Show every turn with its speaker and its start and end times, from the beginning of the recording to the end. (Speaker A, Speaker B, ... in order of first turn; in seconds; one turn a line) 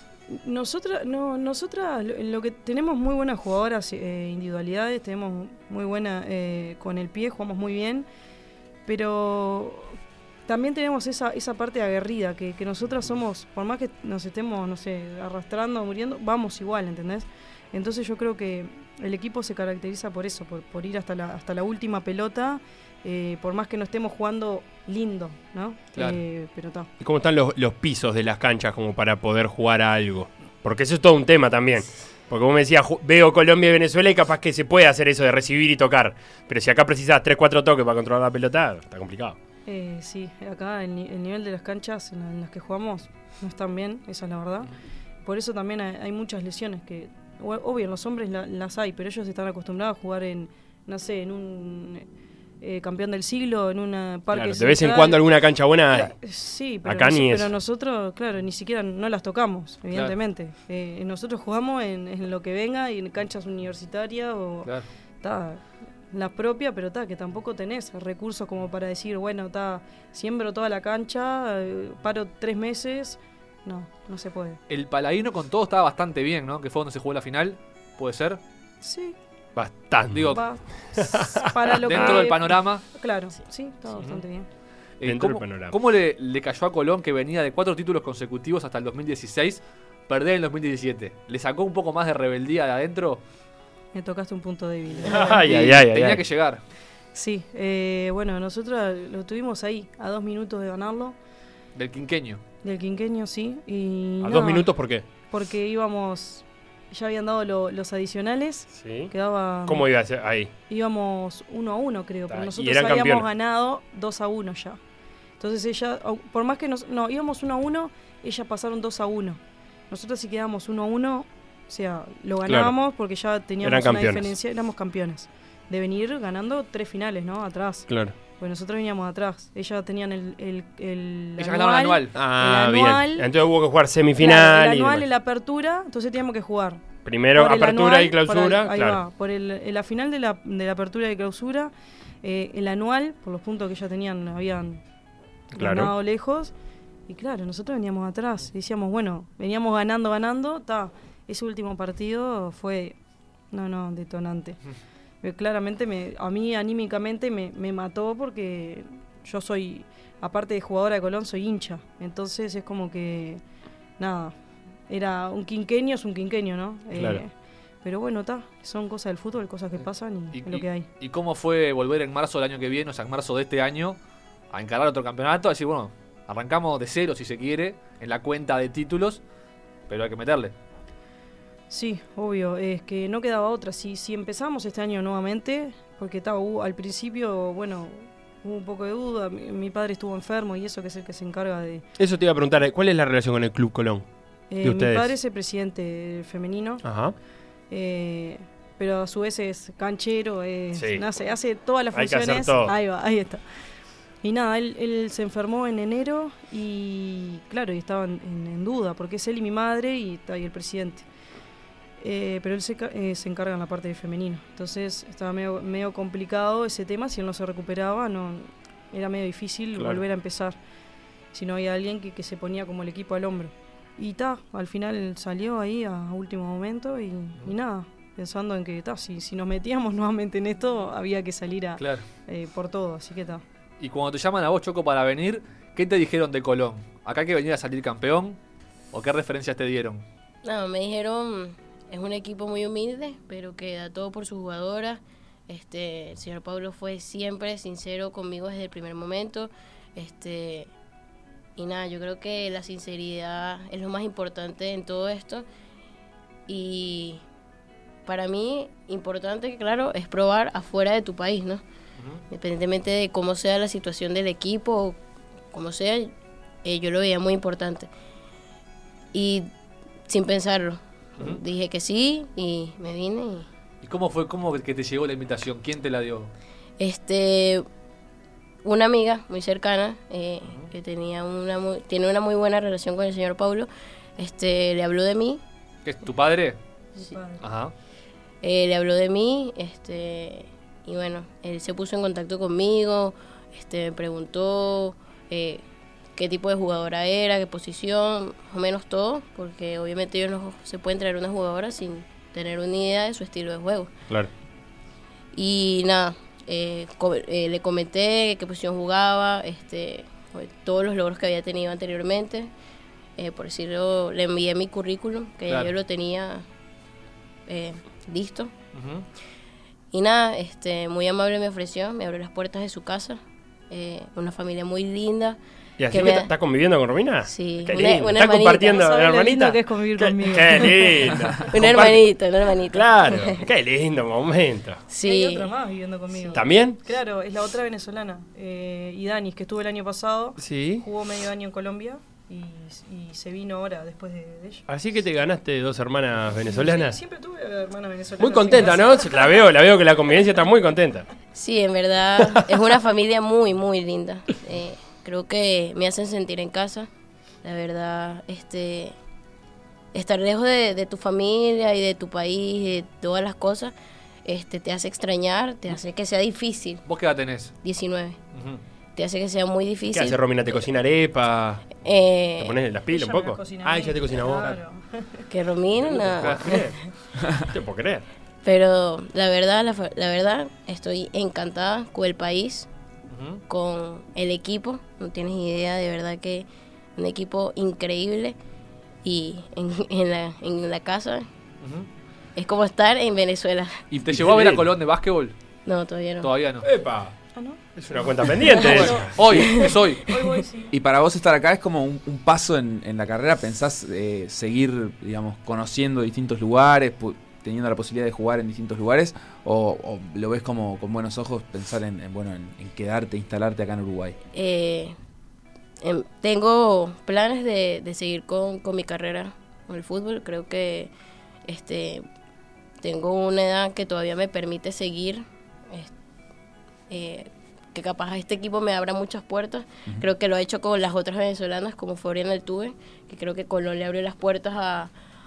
Speaker A: 0.3-8.1
Speaker A: 8.8-26.9
Speaker B: 27.0-39.4
Speaker A: 39.7-44.7
Speaker A: 45.2-52.1
Speaker A: 52.6-55.2
Speaker B: 54.3-56.1
Speaker A: 55.9-74.6
Speaker B: 56.9-57.5
Speaker C: 74.7-78.4
Speaker A: 78.8-79.2
Speaker B: 79.6-80.4
Speaker C: 80.1-80.4
Speaker A: 80.3-84.5
Speaker B: 80.9-82.2
Speaker C: 81.8-82.8
Speaker C: 84.0-84.2
Speaker C: 85.0-93.2
Speaker B: 85.0-85.8
Speaker A: 93.9-95.7
Speaker C: 95.0-96.6
Speaker B: 95.0-96.2
Speaker A: 97.1-101.2
Speaker C: 101.8-102.4
Speaker A: 102.6-109.9
Speaker B: 104.2-105.0
Speaker B: 108.8-109.1
Speaker B: 109.7-110.5
Speaker A: 110.7-114.8
Speaker B: 112.3-113.3
Speaker A: 115.4-133.3
Speaker B: 122.5-122.7
Speaker B: 123.6-124.3
Speaker B: 127.9-128.2
Speaker C: 131.4-132.1
Speaker B: 132.2-135.0
Speaker A: 134.2-136.8
Speaker B: 137.1-139.0
Speaker A: 137.3-144.8
Speaker A: 145.5-146.5
Speaker B: 145.6-145.9
Speaker A: 147.1-153.0
Speaker A: 153.5-154.6
Speaker A: 155.2-163.4
Speaker A: 164.0-164.3
Speaker A: 164.9-170.9
Speaker B: 166.9-167.2
Speaker C: 170.3-174.0
Speaker C: 174.5-179.2
Speaker C: 179.9-180.6
Speaker A: 181.7-191.8
Speaker B: 192.0-194.1
Speaker A: 194.5-196.8
Speaker B: 194.6-195.1
Speaker B: 196.8-197.2
Speaker A: 197.7-203.4
Speaker B: 200.8-201.0
Speaker B: 201.9-202.7
Speaker A: 204.2-211.1
Speaker A: 212.0-220.6
Speaker A: 221.3-233.4
Speaker C: 231.8-232.0
Speaker C: 233.8-238.4
Speaker C: 238.9-240.1
Speaker D: 240.4-250.7
Speaker D: 251.6-255.5
Speaker D: 256.5-257.2
Speaker D: 258.1-261.6
Speaker D: 262.3-265.0
Speaker D: 265.5-266.1
Speaker D: 266.6-267.9
Speaker D: 269.1-269.5
Speaker D: 270.1-273.5
Speaker C: 273.8-276.3
Speaker D: 276.8-277.7
Speaker D: 278.6-285.4
Speaker C: 285.9-286.6
Speaker A: 287.0-287.4
Speaker C: 287.4-287.7
Speaker D: 288.4-295.6
Speaker D: 296.2-303.9
Speaker D: 305.3-312.5
Speaker D: 313.2-316.4
Speaker D: 317.5-318.5
Speaker C: 318.7-319.1
Speaker D: 319.9-325.4
Speaker B: 325.8-332.1
Speaker D: 325.9-326.3
Speaker D: 327.3-328.8
Speaker A: 328.7-331.2
Speaker D: 331.5-333.4
Speaker B: 332.7-334.8
Speaker D: 334.9-335.5
Speaker A: 335.0-344.6
Speaker D: 336.1-336.4
Speaker B: 336.4-336.8
Speaker B: 340.4-340.9
Speaker B: 344.7-347.0
Speaker A: 346.4-349.4
Speaker B: 348.2-351.1
Speaker D: 351.4-356.9
Speaker D: 357.4-358.9
Speaker D: 359.9-363.7
Speaker D: 364.2-366.9
Speaker C: 366.9-367.5
Speaker D: 367.6-368.2
Speaker C: 368.3-368.6
Speaker D: 369.0-370.6
Speaker B: 369.9-371.8
Speaker D: 371.8-372.6
Speaker B: 372.4-374.6
Speaker A: 372.9-375.3
Speaker D: 375.3-376.7
Speaker C: 375.8-376.7
Speaker B: 376.2-376.8
Speaker B: 377.4-378.1
Speaker D: 378.4-382.7
Speaker C: 383.1-383.4
Speaker D: 383.5-388.4
Speaker D: 389.0-391.3
Speaker C: 391.6-391.9
Speaker D: 392.4-393.8
Speaker C: 393.9-395.4
Speaker B: 394.1-394.7
Speaker D: 395.7-396.3
Speaker C: 396.2-396.7
Speaker B: 396.6-397.2
Speaker A: 397.4-400.7
Speaker B: 397.8-399.2
Speaker D: 398.5-400.3
Speaker C: 398.6-400.1
Speaker E: 400.7-414.2
Speaker D: 414.3-415.0
Speaker D: 415.8-420.9
Speaker D: 421.5-422.1
Speaker D: 422.8-425.9
Speaker D: 426.9-434.9